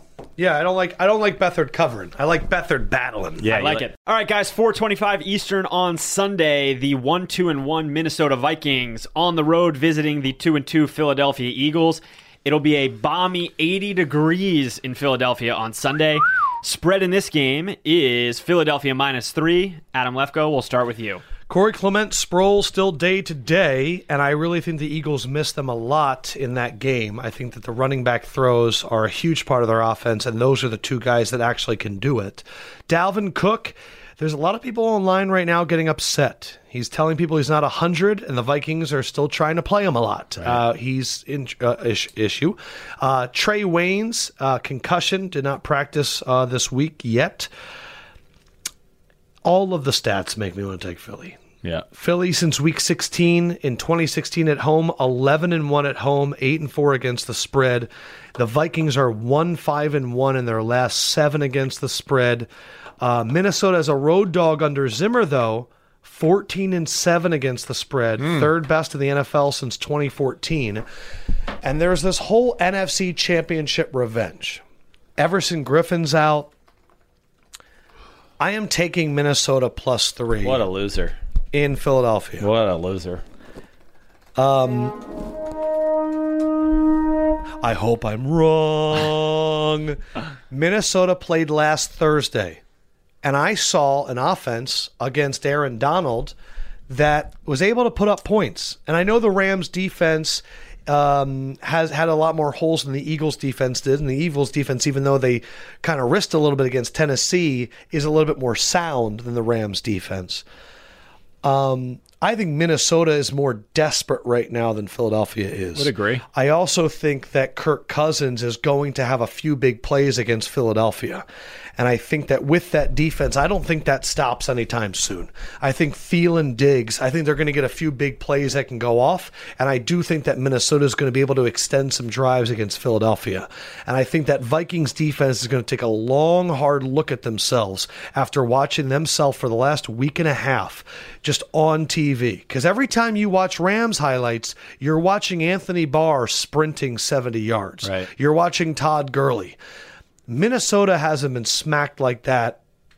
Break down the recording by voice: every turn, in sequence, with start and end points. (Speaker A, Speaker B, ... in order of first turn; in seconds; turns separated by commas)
Speaker A: 0.4-3.5, Speaker B: 3.4-3.9, Speaker C: 3.4-21.2, Speaker A: 21.5-47.5, Speaker A: 49.4-51.4, Speaker A: 51.9-62.5, Speaker A: 63.0-70.8, Speaker B: 68.2-68.5, Speaker A: 71.6-74.6, Speaker A: 75.2-76.5, Speaker A: 78.4-80.7, Speaker B: 80.4-81.2, Speaker A: 81.5-82.5, Speaker B: 82.4-83.2, Speaker A: 84.4-85.0, Speaker A: 87.6-92.6, Speaker A: 93.2-96.3, Speaker A: 96.9-110.4, Speaker A: 111.4-121.2, Speaker B: 115.8-116.2, Speaker A: 121.8-149.6, Speaker B: 147.8-148.1, Speaker A: 150.3-152.6